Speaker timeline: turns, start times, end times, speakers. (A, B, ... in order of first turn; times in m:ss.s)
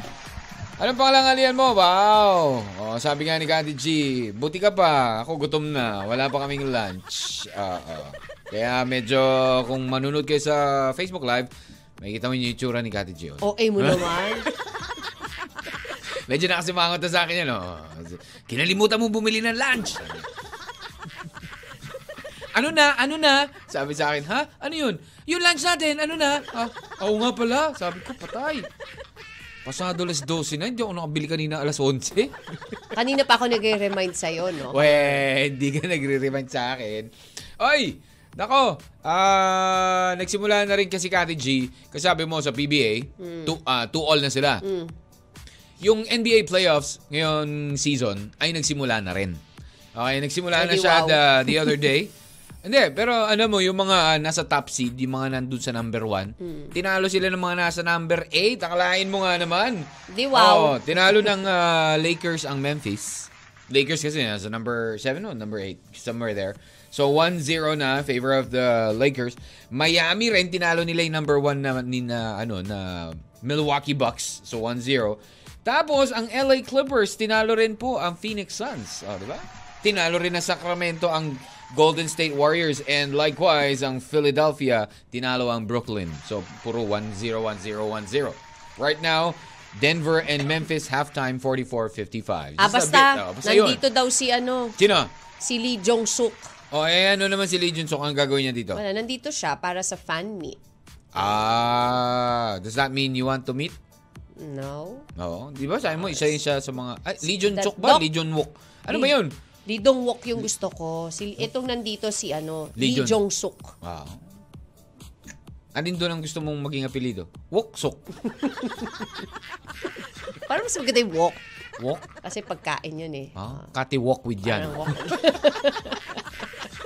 0:00.8-0:14.5 A
0:13.4-0:14.5 B
0:16.3-0:20.3 A
0:22.5-0:28.7 A
0:29.6-0:32.4 A
0:32.9-0:35.2 B
0:34.7-0:44.6 A
0:43.2-0:43.5 B
0:44.6-0:44.9 B
0:45.8-0:49.4 A
0:49.9-0:52.1 A
0:50.5-0:51.8 B
0:52.6-1:33.8 A
0:56.4-0:56.7 B
1:00.1-1:01.3 B
1:32.6-1:34.7 B
1:34.8-1:35.1 A
1:35.4-1:36.5 B
1:36.7-1:38.8 A
1:38.7-1:40.6 B
1:41.1-1:43.8 A
1:44.4-1:45.0 B
1:45.2-1:49.3 A
1:47.2-1:48.0 B
1:49.7-1:53.7 B
1:52.8-1:53.2 A
1:53.8-1:54.2 A
1:55.7-1:58.0 A
1:58.2-1:59.1 B
2:00.5-2:01.4 B
2:01.8-2:02.1 A
2:02.2-2:03.3 B
2:03.4-2:05.6 A
2:04.4-2:06.2 B